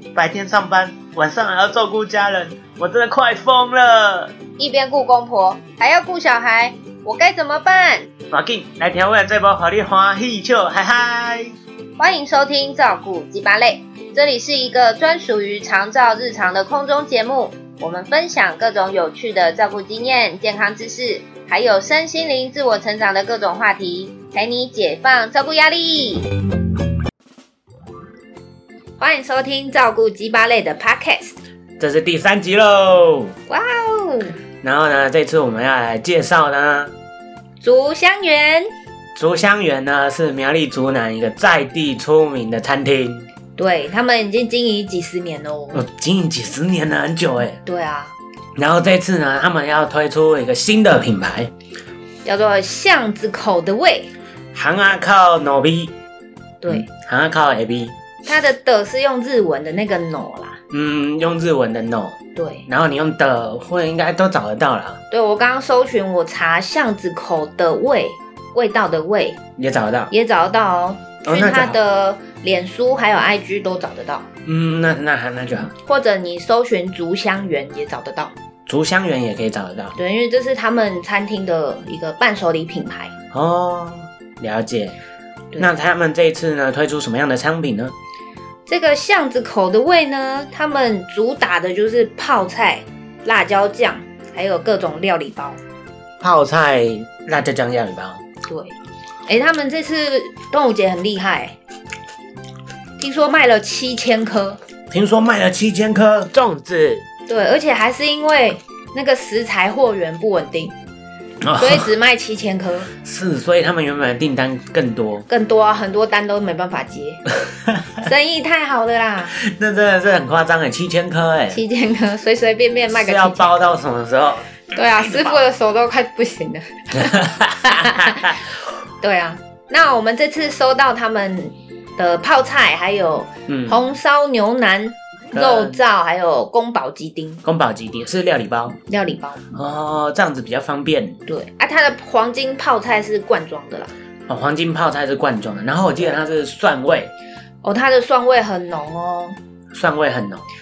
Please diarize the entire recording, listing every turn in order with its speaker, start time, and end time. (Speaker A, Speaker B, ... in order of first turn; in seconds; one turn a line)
Speaker A: 0.1-4.3
Speaker B: 4.6-8.1
Speaker A: 8.3-11.5
Speaker B: 12.0-26.3
Speaker B: 29.0-31.4
Speaker A: 31.8-33.3
Speaker B: 33.5-34.4
Speaker A: 34.6-36.9
Speaker B: 37.6-38.7
Speaker A: 39.1-43.3
Speaker B: 43.6-45.8
Speaker A: 45.7-47.6
Speaker B: 47.6-48.1
Speaker A: 48.6-51.5
Speaker B: 52.2-54.1
Speaker A: 54.5-55.9
Speaker B: 56.6-56.9
Speaker A: 56.7-58.0
Speaker B: 58.2-60.6
Speaker A: 60.7-65.0
Speaker B: 62.3-62.6
Speaker B: 65.1-69.4
Speaker A: 69.6-70.1
Speaker B: 70.1-74.3
Speaker A: 71.2-71.8
Speaker A: 74.4-75.7
Speaker B: 75.8-78.3
Speaker A: 78.7-80.0
Speaker B: 80.0-83.1
Speaker A: 83.3-85.0
Speaker A: 85.6-87.9
Speaker B: 88.7-95.6
Speaker A: 96.2-98.2
Speaker B: 98.5-98.7
Speaker B: 99.3-101.5
Speaker B: 103.0-104.6
Speaker A: 104.9-107.0
Speaker B: 107.3-110.7
Speaker A: 111.4-111.9
Speaker B: 111.6-112.9
Speaker A: 113.0-115.2
Speaker B: 115.3-117.3
Speaker B: 118.0-119.3
Speaker A: 119.3-121.6
Speaker B: 121.5-123.5
Speaker A: 122.9-125.4
Speaker B: 124.7-128.4
Speaker A: 126.9-128.4
Speaker B: 129.0-137.4
Speaker A: 133.5-133.8
Speaker A: 135.3-135.8
Speaker A: 137.4-138.8
Speaker B: 138.8-139.5
Speaker A: 139.5-141.2
Speaker B: 141.3-143.9
Speaker A: 144.3-147.1
Speaker B: 147.6-149.4
Speaker A: 149.7-150.4